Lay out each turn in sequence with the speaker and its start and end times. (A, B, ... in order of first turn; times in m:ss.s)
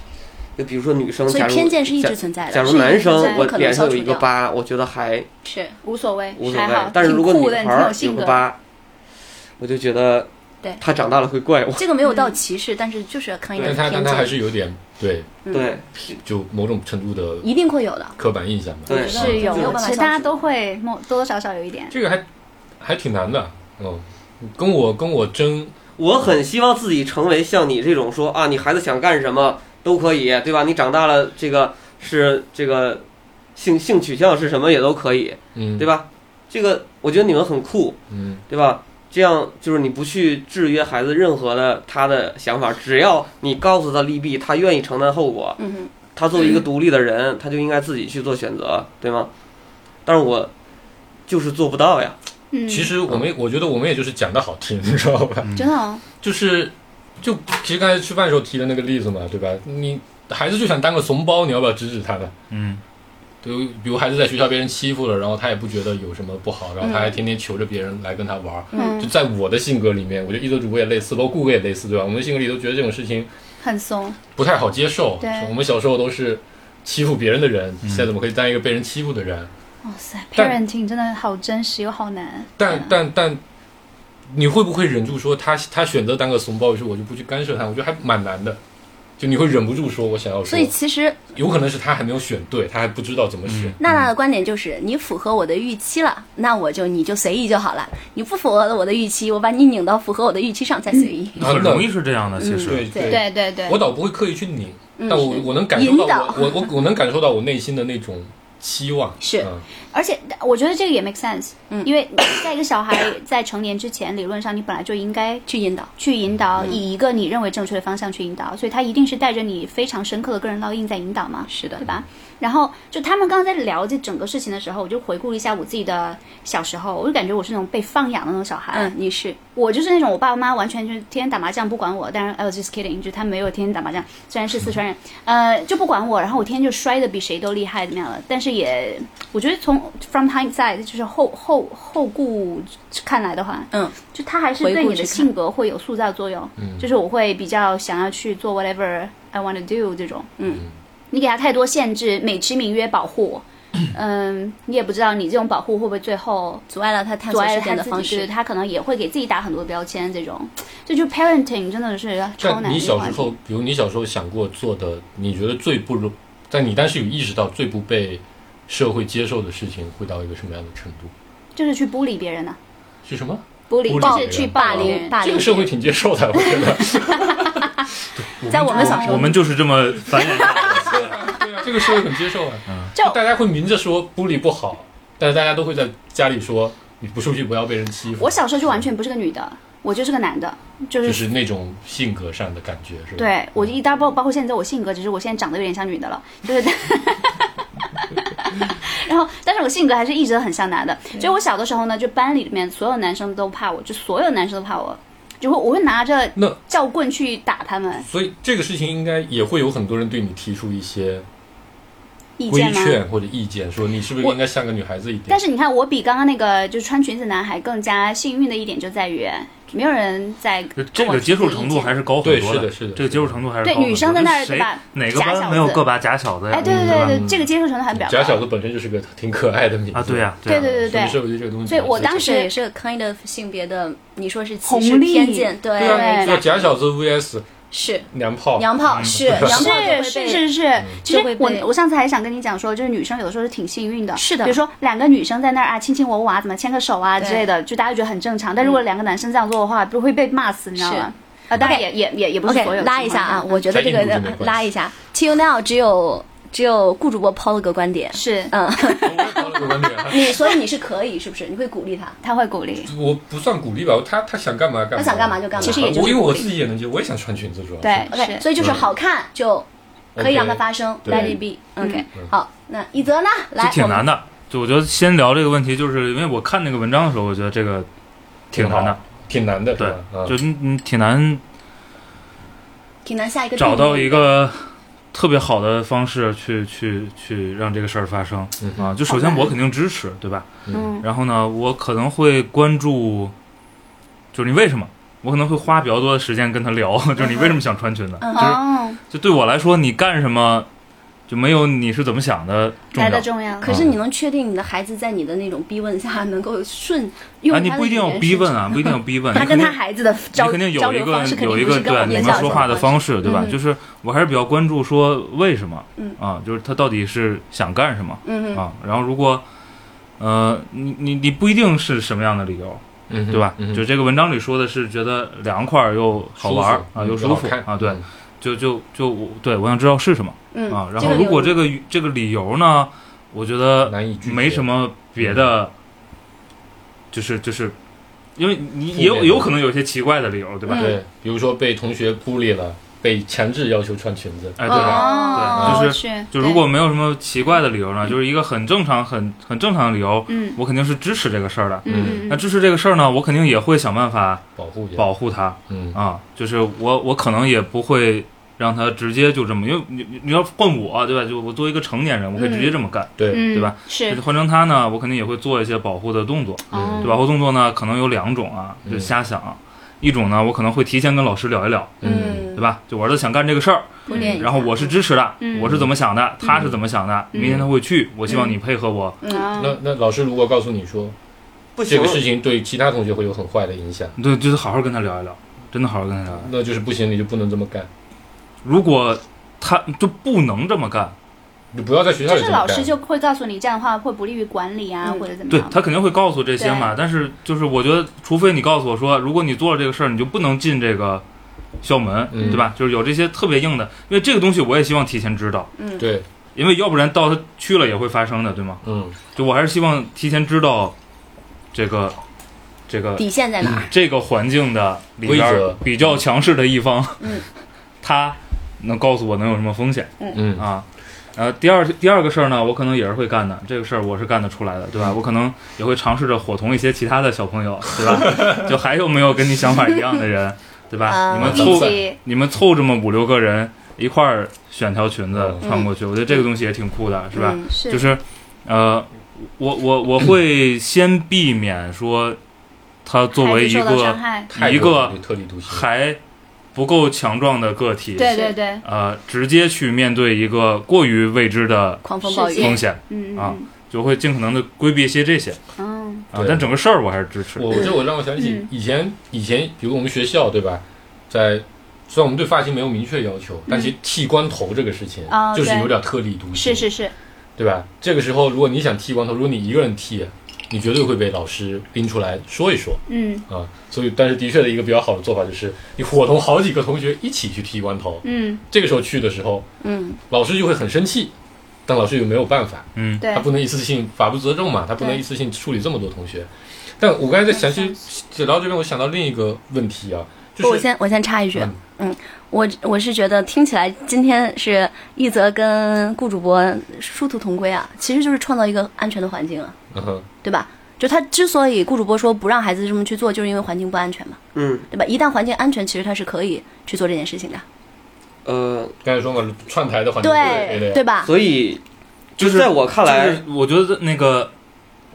0:00.6-0:05.3 A
0:01.3-0:04.3 B
0:03.0-0:03.5 C
0:05.4-0:05.8 B
0:05.8-0:08.5 C
0:06.4-0:08.6 A
0:09.6-0:11.9 A
0:11.8-0:14.4 B
0:12.0-0:12.3 C
0:13.6-0:13.8 A
0:13.6-0:15.4 D
0:15.4-0:15.7 B
0:15.5-0:16.2 A
0:16.2-0:17.5 D
0:17.4-0:18.2 B
0:18.2-0:19.5 D
0:18.9-0:19.9 A
0:18.9-0:20.3 B
0:19.0-0:22.0 C
0:21.9-0:22.3 D
0:22.8-0:25.7 D
0:26.0-0:33.0 A
0:33.6-0:45.6 A
0:35.6-0:35.9 D
0:38.1-0:38.4 D
0:45.6-0:45.9 B
0:46.1-0:49.3 A
0:50.0-0:50.5 A
0:51.3-0:52.2 A
0:52.5-0:52.9 C
0:52.7-0:55.5 D
0:55.4-0:55.7 E
0:55.6-0:56.0 C
0:56.2-1:02.3 D
1:02.5-1:02.8 E
1:03.4-1:13.3 D
1:06.8-1:07.2 B
1:08.7-1:09.0 B
1:08.8-1:09.1 C
1:13.6-1:14.2 C
1:14.4-1:19.5 D
1:15.2-1:15.5 C
1:19.8-1:22.9 C
1:22.6-1:23.4 D
1:24.3-1:28.6 D
1:29.2-1:30.7 D
1:30.5-1:31.3 B
1:31.3-1:33.8 D
1:33.5-1:34.1 E
1:33.8-1:41.7 B
1:41.4-1:42.9 E
1:41.4-1:49.6 D
1:42.4-1:43.2 B
1:43.0-1:43.8 C
1:45.0-1:46.7 B
1:49.2-1:49.5 B
1:49.9-2:09.0 C
1:55.5-1:55.9 B
2:01.5-2:01.8 B
2:08.7-2:09.4 B
2:09.5-2:30.3 C
2:23.7-2:24.0 B
2:24.6-2:25.3 B
2:26.6-2:26.9 D
2:30.4-2:30.6 B
2:31.1-2:36.7 C
2:36.7-2:38.3 B
2:37.3-2:43.3 C
2:42.4-2:51.1 D
2:51.6-2:52.6 C
2:53.0-2:59.0 D
2:53.7-2:55.6 C
2:53.9-2:55.7 B
2:58.5-2:59.4 B
2:58.6-2:59.3 C
2:58.8-3:01.2 E
3:00.6-3:08.8 D
3:08.2-3:11.2 C
3:11.0-3:13.7 D
3:13.2-3:28.1 C
3:28.1-3:31.3 D
3:32.4-3:33.0 C
3:32.5-3:35.4 D
3:35.3-3:42.0 C
3:40.8-3:47.2 E
3:42.2-3:43.4 D
3:43.6-3:45.8 C
3:46.5-3:48.4 C
3:46.6-3:52.3 D
3:49.9-3:50.7 E
3:50.4-3:52.5 C
3:52.0-3:56.7 B
3:54.6-3:56.4 C
3:55.8-3:57.6 D
3:57.7-4:00.5 B
3:58.1-3:59.8 D
3:58.9-3:59.2 E
3:59.4-4:13.6 C
4:01.0-4:01.7 B
4:04.2-4:04.6 B
4:07.2-4:07.4 B
4:10.8-4:11.9 B
4:12.5-4:19.4 B
4:13.7-4:14.7 D
4:18.1-4:19.6 C
4:19.0-4:20.4 D
4:20.0-4:22.2 B
4:22.2-4:22.9 C
4:22.9-4:28.9 D
4:25.0-4:26.3 B
4:25.6-4:26.5 C
4:27.8-4:28.5 C
4:28.1-4:34.1 B
4:30.2-4:31.4 D
4:31.1-4:32.1 C
4:33.6-4:37.9 E
4:38.5-4:39.0 E
4:38.5-4:40.4 D
4:39.8-4:41.4 E
4:43.0-4:44.2 B
4:43.6-4:53.3 E
4:48.6-4:49.0 D
4:49.1-4:49.5 C
4:50.7-4:51.0 C
4:54.3-5:00.7 E
4:58.2-4:58.6 B
4:58.3-4:59.0 C
5:01.3-5:03.8 E
5:02.9-5:03.7 C
5:03.6-5:10.2 B
5:03.6-5:04.0 D
5:07.5-5:09.8 E
5:09.4-5:13.5 C
5:10.3-5:19.4 E
5:11.4-5:13.6 B
5:18.2-5:18.6 B
5:20.2-5:35.7 E
5:23.1-5:23.8 D
5:26.4-5:28.0 D
5:30.5-5:31.6 B
5:33.8-5:35.5 D
5:37.1-5:37.8 E
5:38.4-5:41.0 E
5:38.9-5:39.5 D
5:40.7-5:41.0 B
5:40.7-5:45.9 D
5:44.6-5:54.4 E
5:44.7-5:46.6 C
5:44.7-5:45.5 B
5:50.3-5:50.6 C
5:51.8-5:52.4 C
5:51.9-5:52.2 D
5:54.6-5:55.1 D
5:55.0-6:19.2 E
5:55.7-5:56.0 D
6:03.2-6:03.5 D
6:03.3-6:04.2 C
6:06.7-6:07.2 C
6:06.7-6:07.1 D
6:08.9-6:09.1 D
6:12.0-6:12.5 D
6:12.0-6:12.6 B
6:14.1-6:14.4 C
6:14.1-6:14.9 B
6:15.4-6:15.7 C
6:15.6-6:15.9 D
6:16.5-6:16.8 D
6:17.4-6:17.7 D
6:19.2-6:19.6 B
6:19.2-6:19.8 C
6:19.6-6:21.2 D
6:21.8-6:22.2 A
6:21.9-6:24.2 D
6:24.2-6:26.5 E
6:26.3-6:27.9 D
6:28.6-6:31.2 E
6:31.7-6:32.9 D
6:32.2-6:35.8 C
6:35.5-6:41.2 E
6:36.6-6:36.9 C
6:41.8-6:45.7 E
6:42.3-6:42.7 D
6:45.8-6:46.1 B
6:46.0-6:46.3 D
6:46.6-6:48.8 E
6:48.8-6:49.2 D
6:49.4-6:51.0 E
6:51.7-6:52.2 E
6:52.9-6:53.3 E
6:53.2-6:53.9 B
6:53.6-6:53.9 D
6:53.9-6:57.4 E
6:55.2-6:56.2 D
6:57.2-6:57.4 B
6:58.0-7:00.8 E
7:00.3-7:00.7 D
7:01.4-7:22.4 E
7:08.2-7:08.6 D
7:11.1-7:11.8 B
7:11.4-7:12.0 D
7:11.5-7:12.2 C
7:15.3-7:15.6 D
7:15.6-7:15.9 B
7:17.3-7:17.7 B
7:17.7-7:18.1 C
7:23.0-7:26.2 E
7:23.3-7:24.5 C
7:24.5-7:25.9 D
7:26.7-7:35.6 E
7:28.2-7:28.8 C
7:32.0-7:32.8 B
7:32.2-7:33.7 C
7:35.8-7:36.2 C
7:36.3-7:37.8 E
7:36.3-7:36.7 D
7:37.6-7:46.9 D
7:38.4-7:38.7 C
7:45.3-7:45.9 C
7:46.5-7:47.1 C
7:47.6-7:59.7 D
7:53.1-7:53.4 C
7:58.2-7:58.6 C
7:59.8-8:00.2 B
8:00.3-8:01.3 D
8:01.9-8:10.9 D
8:03.0-8:03.2 E
8:03.2-8:03.5 C
8:10.6-8:19.8 B
8:11.5-8:11.8 D
8:19.9-8:20.3 D
8:20.4-8:24.4 B
8:24.6-8:24.9 A
8:24.9-8:27.6 B
8:28.4-8:29.0 A
8:29.0-8:31.0 D
8:30.2-8:31.3 B
8:31.2-8:31.8 A
8:32.4-8:33.4 A
8:32.4-8:34.5 E